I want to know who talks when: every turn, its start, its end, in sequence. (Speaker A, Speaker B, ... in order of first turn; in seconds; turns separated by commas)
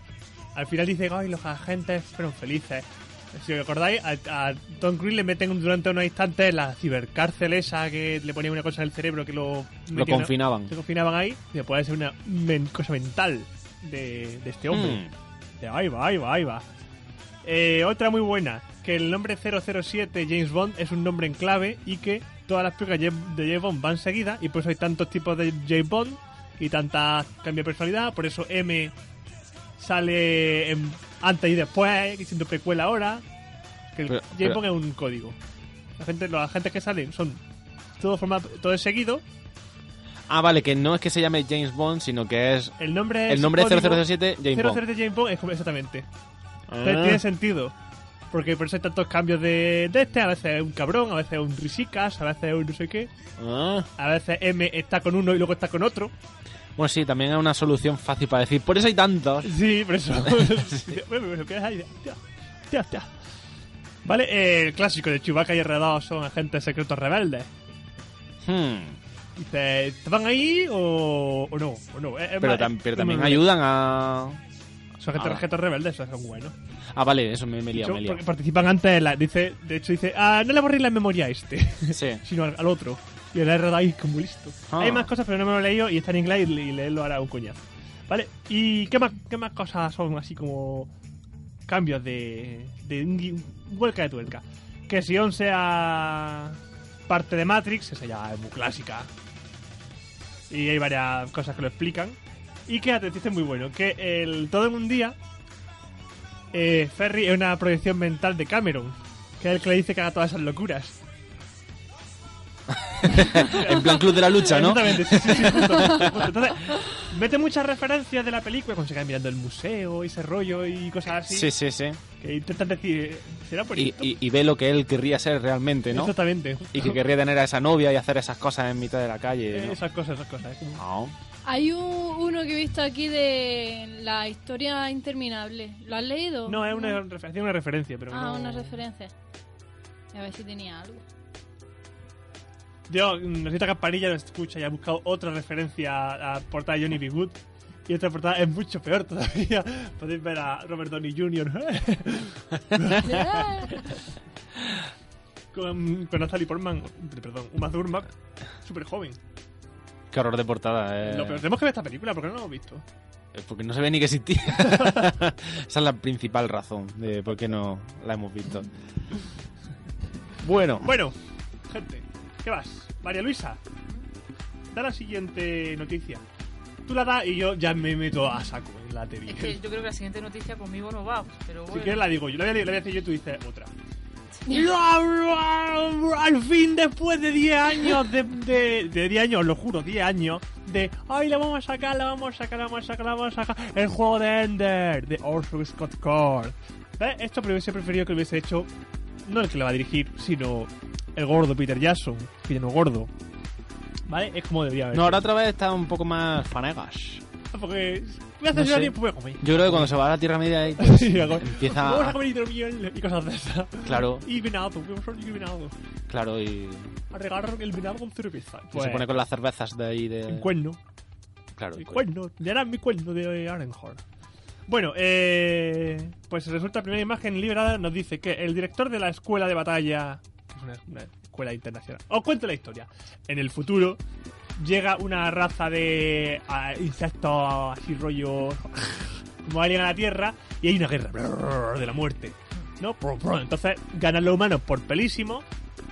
Speaker A: 0.5-15.0, Speaker B: 9.9-10.7, Speaker B: 14.7-15.1, Speaker A: 15.6-16.6, Speaker A: 17.4-28.9, Speaker A: 29.8-33.2, Speaker A: 33.9-35.4, Speaker B: 34.1-34.6, Speaker A: 36.0-37.4, Speaker A: 38.0-39.2, Speaker B: 40.3-44.8, Speaker A: 42.8-46.1, Speaker B: 46.7-47.2, Speaker A: 46.8-47.7, Speaker A: 48.3-53.1, Speaker B: 53.4-53.9, Speaker A: 54.0-56.1, Speaker B: 56.8-59.5, Speaker A: 59.4-62.2, Speaker B: 60.2-60.9, Speaker A: 62.7-63.1, Speaker A: 64.0-67.5, Speaker B: 68.4-69.0, Speaker A: 69.4-73.5, Speaker B: 72.4-74.4, Speaker A: 75.0-76.5, Speaker B: 75.1-75.4, Speaker B: 76.9-78.2, Speaker A: 77.7-90.9, Speaker B: 81.9-82.2, Speaker B: 84.7-85.1, Speaker A: 91.7-99.1, Speaker A: 100.5-105.2, Speaker A: 106.5-111.0, Speaker B: 112.9-116.3, Speaker A: 113.1-121.5, Speaker B: 121.3-122.0, Speaker A: 122.2-124.1, Speaker B: 123.7-126.1, Speaker A: 125.9-127.0, Speaker B: 126.7-129.8, Speaker A: 129.5-130.8, Speaker B: 130.8-131.1, Speaker C: 131.4-137.0, Speaker A: 136.4-138.8, Speaker C: 138.1-139.1, Speaker C: 140.1-141.0, Speaker A: 142.9-153.8, Speaker B: 153.0-153.4, Speaker C: 153.1-153.7, Speaker A: 155.5-158.1, Speaker A: 158.6-159.2, Speaker B: 160.1-161.4, Speaker A: 161.0-162.8, Speaker B: 163.3-168.7, Speaker B: 170.4-170.9, Speaker A: 170.8-171.2, Speaker A: 171.7-173.6, Speaker A: 174.7-176.2, Speaker A: 176.8-179.6, Speaker D: 179.3-182.1, Speaker A: 181.7-183.7, Speaker A: 184.5-198.7, Speaker A: 199.2-203.1, Speaker A: 204.1-205.2, Speaker B: 204.9-207.2, Speaker A: 207.5-209.9, Speaker B: 208.5-212.2, Speaker A: 210.8-215.7, Speaker B: 213.8-214.3, Speaker B: 216.1-217.0, Speaker A: 217.1-219.1, Speaker B: 218.7-220.5, Speaker A: 220.3-220.8, Speaker B: 221.6-222.0, Speaker A: 221.8-224.0, Speaker A: 224.7-234.0, Speaker A: 234.6-245.4